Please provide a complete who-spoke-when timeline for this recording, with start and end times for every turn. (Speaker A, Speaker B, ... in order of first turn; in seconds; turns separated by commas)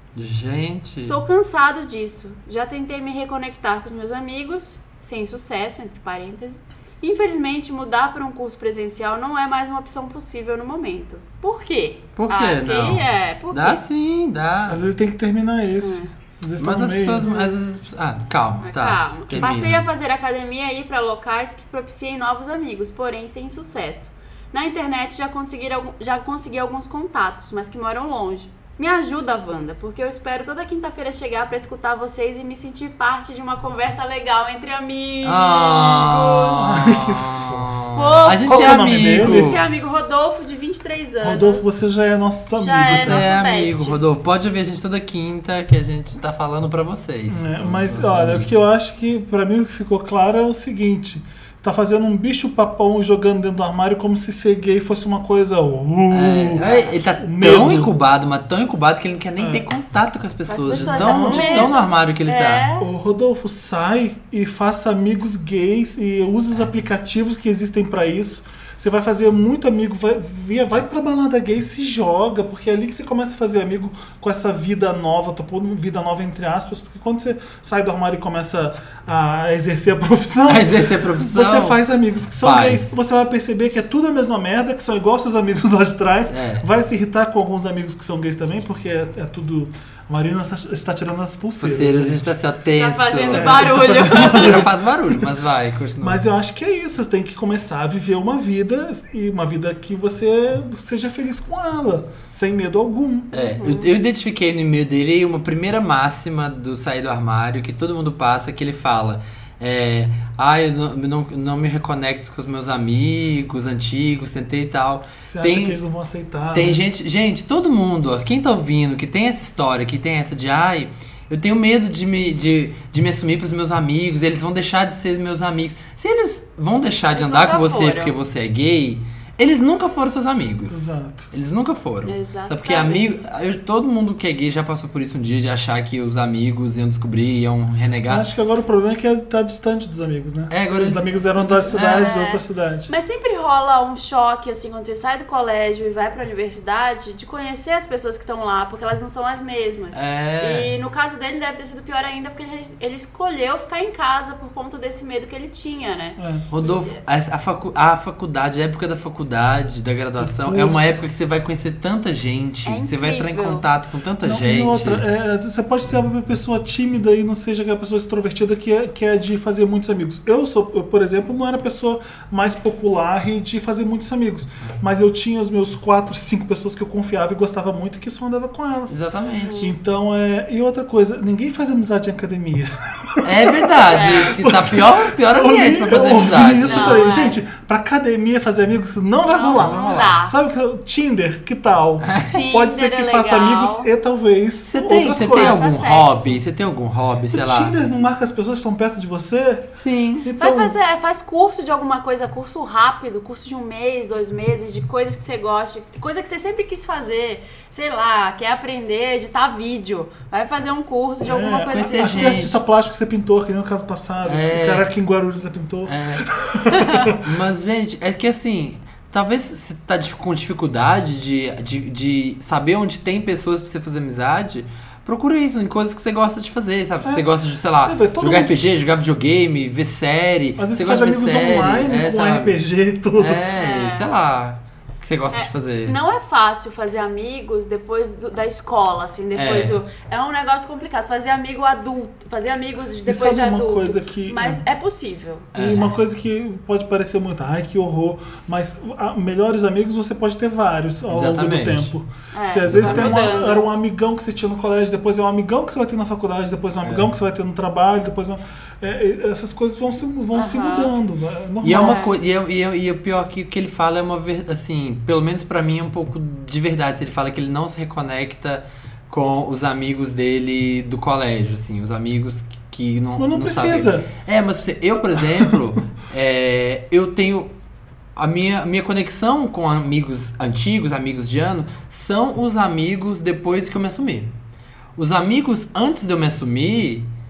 Speaker A: 0.1-1.2, Speaker B: 1.0-13.8, Speaker A: 12.2-14.8, Speaker C: 14.7-17.4, Speaker B: 15.8-16.1, Speaker A: 16.6-19.9, Speaker B: 18.6-36.8, Speaker A: 35.2-39.6, Speaker C: 36.6-37.7, Speaker B: 37.9-41.7, Speaker C: 38.3-39.6, Speaker C: 41.2-43.3, Speaker B: 42.6-44.0, Speaker A: 42.9-48.5, Speaker C: 47.3-56.6, Speaker A: 56.1-62.7, Speaker B: 56.6-56.9, Speaker C: 57.2-57.9, Speaker C: 59.4-59.6, Speaker B: 60.5-62.9, Speaker C: 60.7-61.8, Speaker C: 62.8-92.3, Speaker A: 80.5-81.8, Speaker A: 82.4-83.0, Speaker A: 86.3-86.7, Speaker A: 91.6-96.2, Speaker B: 92.8-94.7, Speaker C: 93.3-95.2, Speaker C: 96.0-103.3, Speaker A: 103.3-115.8, Speaker B: 103.3-103.9, Speaker C: 115.3-116.8, Speaker A: 116.5-138.2, Speaker B: 127.1-128.2, Speaker C: 130.7-131.3, Speaker B: 132.1-133.2, Speaker C: 138.1-142.9, Speaker A: 140.5-142.1, Speaker B: 141.9-157.0, Speaker A: 149.9-150.7, Speaker C: 156.2-156.4, Speaker A: 156.5-165.1, Speaker C: 160.2-161.0, Speaker B: 162.7-163.7, Speaker C: 164.2-179.0, Speaker A: 178.9-179.6, Speaker B: 179.4-179.7, Speaker C: 179.6-195.8, Speaker A: 183.2-187.2, Speaker B: 183.9-184.3, Speaker B: 186.6-187.4, Speaker B: 189.2-190.3, Speaker A: 189.6-190.1, Speaker A: 192.0-192.4, Speaker B: 192.2-193.9, Speaker A: 194.7-197.7, Speaker B: 195.3-196.4, Speaker C: 197.3-200.7, Speaker A: 199.8-200.3, Speaker B: 200.4-212.4, Speaker C: 211.2-217.2, Speaker A: 211.7-212.6, Speaker A: 214.2-214.9, Speaker A: 215.9-216.2, Speaker B: 216.7-217.1, Speaker A: 217.2-232.6, Speaker C: 227.0-228.6, Speaker C: 230.6-233.4, Speaker A: 233.2-236.0, Speaker B: 233.6-234.1, Speaker B: 235.3-245.5, Speaker A: 239.3-239.8, Speaker C: 243.1-244.6, Speaker A: 245.5-246.0, Speaker C: 245.6-262.1, Speaker A: 251.1-251.9, Speaker B: 252.3-253.7, Speaker A: 252.7-253.4, Speaker A: 256.8-257.1, Speaker B: 260.3-260.9, Speaker A: 261.6-277.5, Speaker B: 261.7-262.1, Speaker C: 273.2-274.1, Speaker A: 278.2-284.3, Speaker A: 285.0-287.1